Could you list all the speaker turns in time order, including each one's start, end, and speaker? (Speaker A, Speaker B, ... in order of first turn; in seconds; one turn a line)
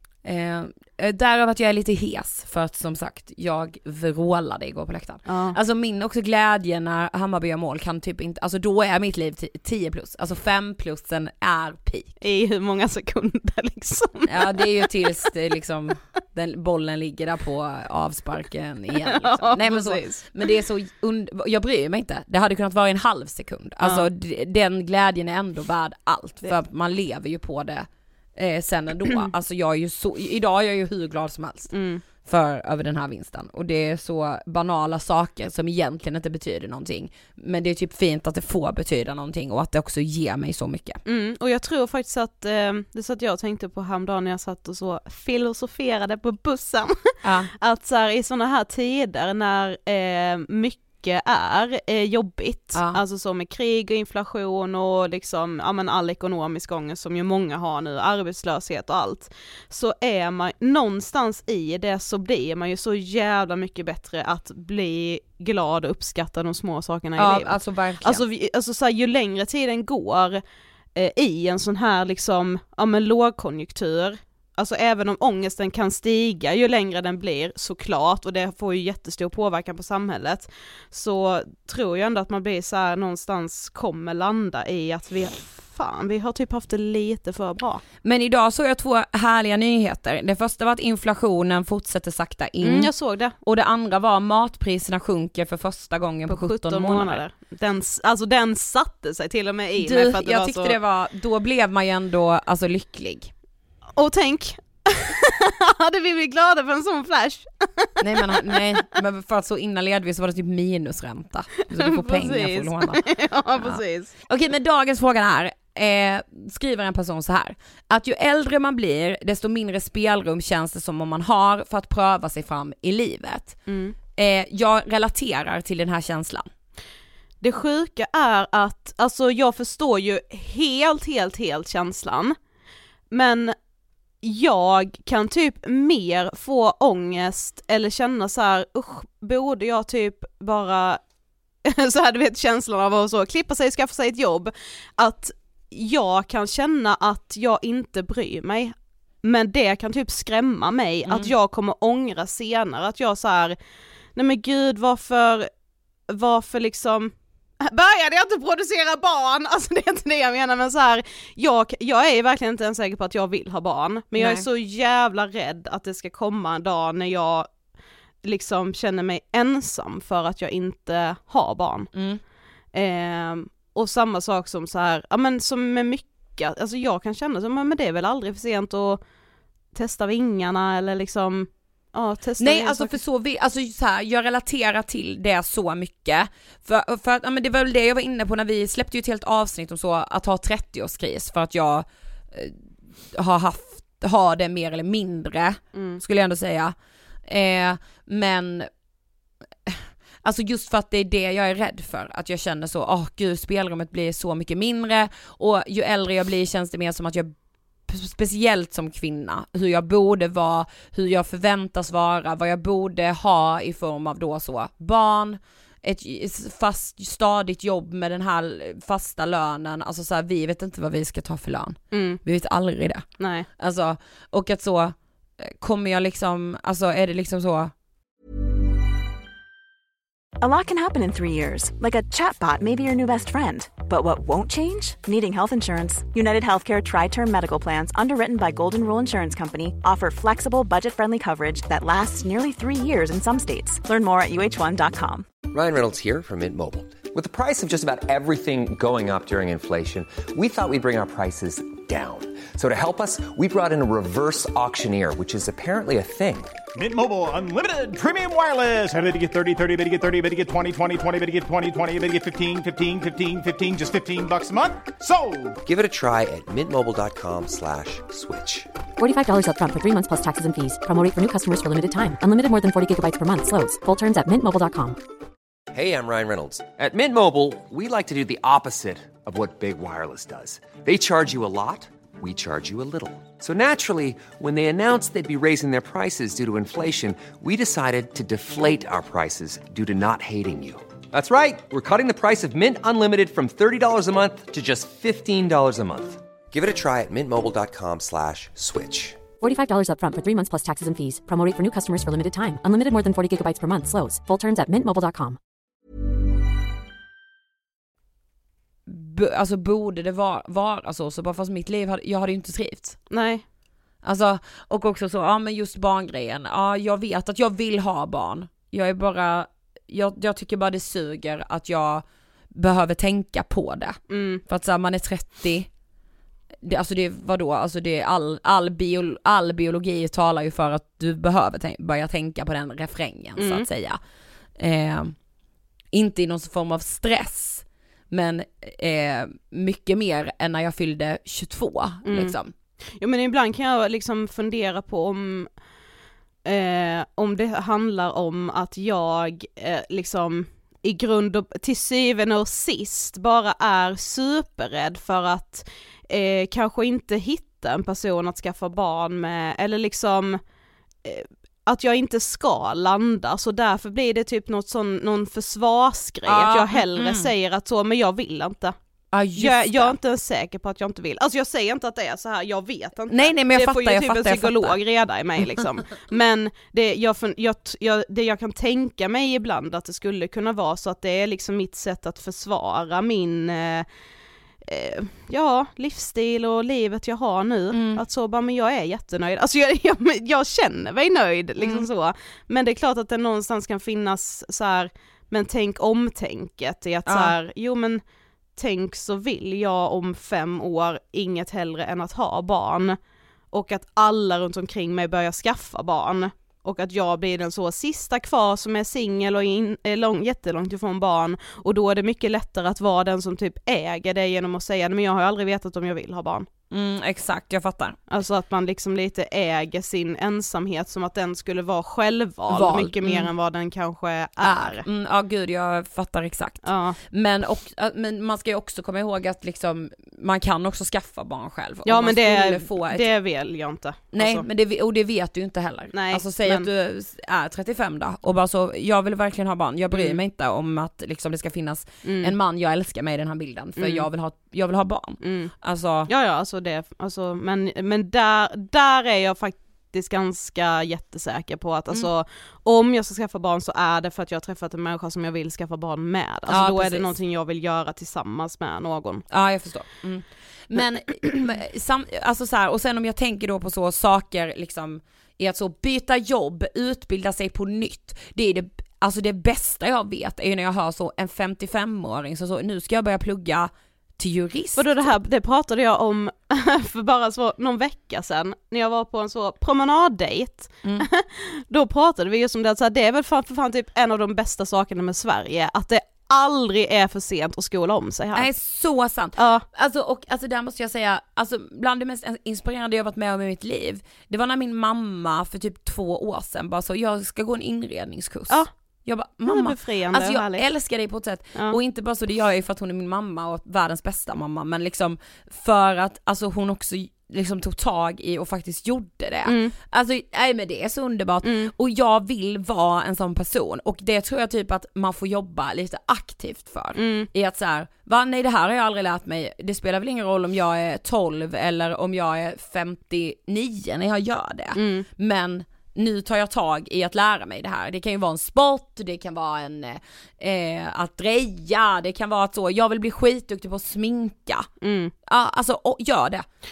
Speaker A: 0.2-12.1
Speaker B: 5.3-5.6
Speaker B: 12.2-14.9
Speaker A: 14.3-41.0
Speaker B: 19.1-20.4
Speaker B: 23.8-24.1
Speaker B: 31.7-32.0
Speaker B: 41.0-46.9
Speaker A: 47.2-47.5
Speaker B: 47.6-70.4
Speaker A: 52.7-53.0
Speaker A: 67.2-68.2
Speaker B: 70.9-87.8
Speaker A: 88.0-97.2
Speaker B: 92.6-93.3
Speaker B: 96.3-100.8
Speaker A: 99.8-103.3
Speaker B: 104.0-108.6
Speaker A: 108.0-123.6
Speaker B: 111.7-114.1
Speaker B: 123.7-124.0
Speaker A: 124.2-126.5
Speaker B: 127.4-132.3
Speaker B: 133.1-133.5
Speaker B: 134.2-141.0
Speaker B: 141.7-153.6
Speaker A: 151.1-151.3
Speaker B: 154.2-155.5
Speaker B: 156.1-167.5
Speaker A: 164.2-164.5
Speaker B: 168.2-171.9
Speaker A: 171.9-172.2
Speaker B: 172.7-179.0
Speaker B: 179.7-183.0
Speaker A: 182.4-192.6
Speaker A: 193.1-196.7
Speaker B: 195.7-196.0
Speaker A: 197.3-198.7
Speaker A: 199.7-227.7
Speaker B: 221.9-222.2
Speaker B: 223.2-223.5
Speaker C: 230.4-245.2
Speaker D: 245.5-256.5
Speaker E: 256.8-265.6
Speaker D: 265.6-268.7
Speaker F: 269.0-275.0
Speaker D: 275.7-299.2
Speaker F: 299.4-305.4
Speaker A: 308.9-313.0
Speaker B: 313.1-313.4
Speaker A: 314.0-325.7
Speaker B: 324.1-324.4
Speaker A: 326.6-334.0
Speaker B: 333.4-333.6
Speaker A: 334.6-335.1
Speaker A: 335.9-342.5
Speaker B: 342.1-342.4
Speaker B: 343.0-345.5
Speaker B: 346.4-360.4
Speaker B: 361.0-368.7
Speaker A: 366.2-367.3
Speaker A: 369.1-370.0
Speaker B: 369.4-383.9
Speaker A: 373.1-374.8
Speaker B: 384.6-398.0
Speaker A: 387.7-388.0
Speaker A: 391.6-391.9
Speaker A: 397.1-397.3
Speaker B: 398.6-403.0
Speaker B: 403.5-416.5
Speaker A: 416.7-418.0
Speaker B: 418.1-424.8
Speaker A: 422.5-423.3
Speaker A: 424.4-433.1
Speaker B: 426.6-427.0
Speaker B: 431.8-434.4
Speaker A: 434.1-446.1
Speaker B: 435.9-436.7
Speaker B: 439.9-440.2
Speaker B: 442.0-442.3
Speaker B: 443.8-444.1
Speaker B: 445.2-445.5
Speaker B: 446.1-459.2
Speaker A: 456.5-457.1
Speaker A: 459.3-475.2
Speaker B: 474.8-488.5
Speaker A: 488.3-534.7
Speaker B: 489.4-489.6
Speaker B: 499.4-500.6
Speaker B: 509.4-509.7
Speaker B: 511.4-511.7
Speaker B: 517.0-517.3
Speaker B: 524.8-525.0
Speaker B: 534.8-535.1
Speaker A: 535.3-536.4